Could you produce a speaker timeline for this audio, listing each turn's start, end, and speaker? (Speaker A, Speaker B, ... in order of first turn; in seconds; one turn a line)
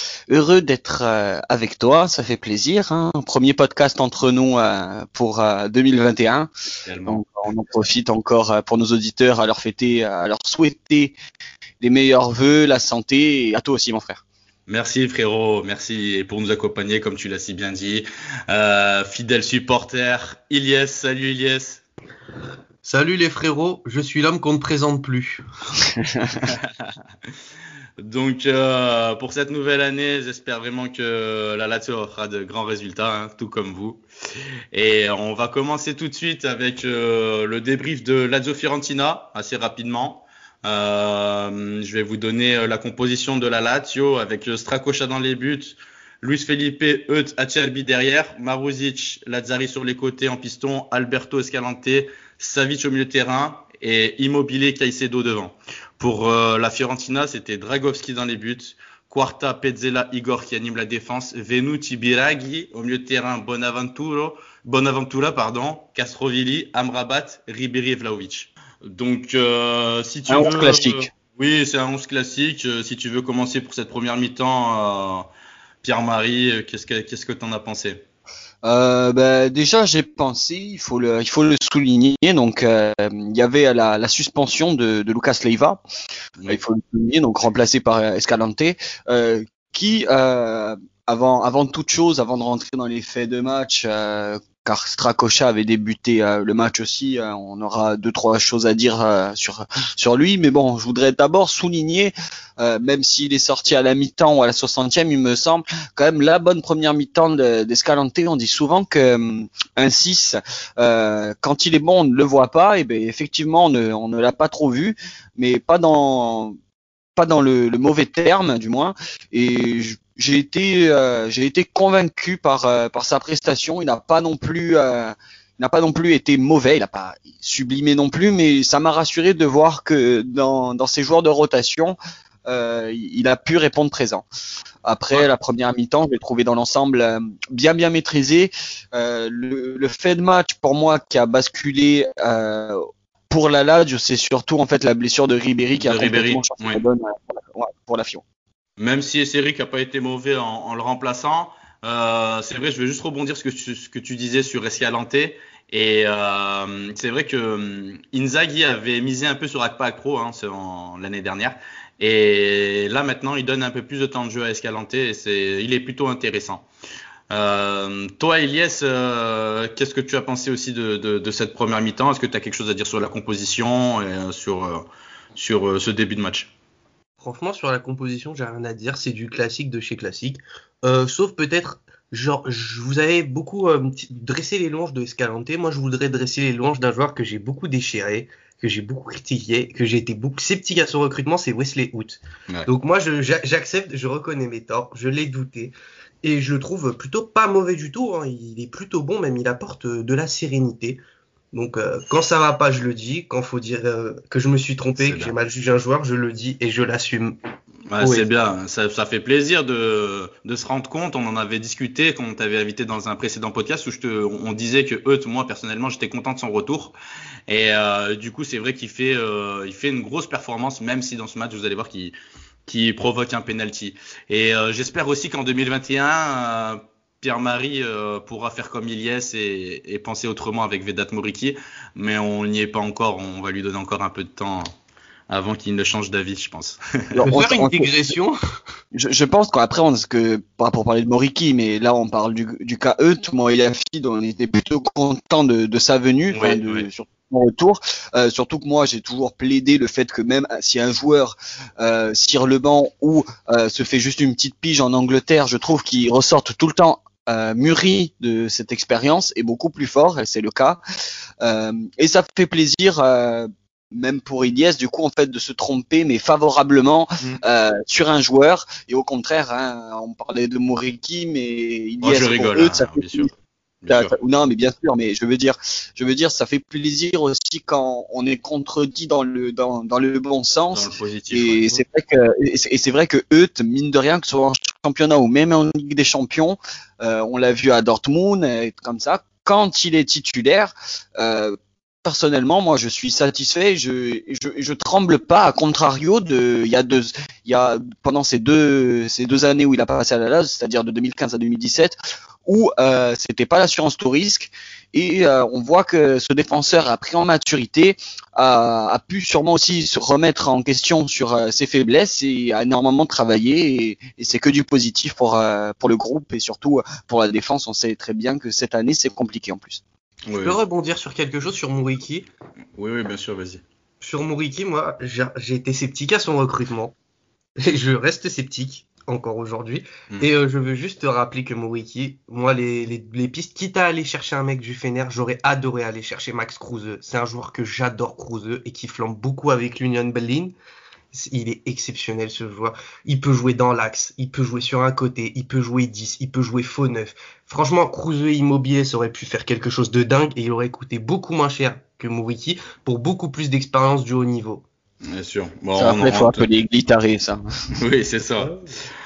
Speaker A: 0.3-6.5
Speaker B: 6.9-7.2
Speaker A: 7.1-11.2
Speaker A: 11.8-14.2
Speaker B: 14.7-21.8
Speaker C: 22.8-25.4
Speaker A: 25.9-26.5
Speaker B: 26.5-26.9
Speaker B: 28.0-34.0
Speaker B: 34.7-75.3
Speaker A: 70.3-71.1
Speaker B: 75.8-78.0
Speaker A: 78.6-85.8
Speaker A: 86.5-116.6
Speaker A: 117.2-134.2
Speaker A: 134.8-148.2
Speaker B: 145.8-146.8
Speaker B: 148.8-166.7
Speaker B: 167.3-176.5
Speaker C: 177.2-201.0
Speaker C: 201.5-207.4
Speaker B: 205.0-205.3
Speaker B: 207.9-217.0
Speaker C: 208.0-208.3
Speaker B: 217.5-222.2
Speaker B: 222.7-234.7
Speaker B: 235.3-237.2
Speaker A: 237.1-238.1
Speaker C: 237.2-238.4
Speaker A: 238.9-260.8
Speaker B: 246.3-246.9
Speaker A: 261.4-273.3
Speaker B: 272.0-273.3
Speaker B: 273.8-274.1
Speaker A: 273.9-319.8
Speaker B: 280.7-281.7
Speaker B: 320.3-320.6
Speaker C: 320.4-322.3
Speaker B: 322.8-323.6
Speaker C: 324.0-326.9
Speaker C: 327.6-340.5
Speaker C: 341.1-354.6
Speaker B: 355.0-356.5
Speaker A: 355.8-357.4
Speaker B: 357.8-358.6
Speaker C: 358.4-358.8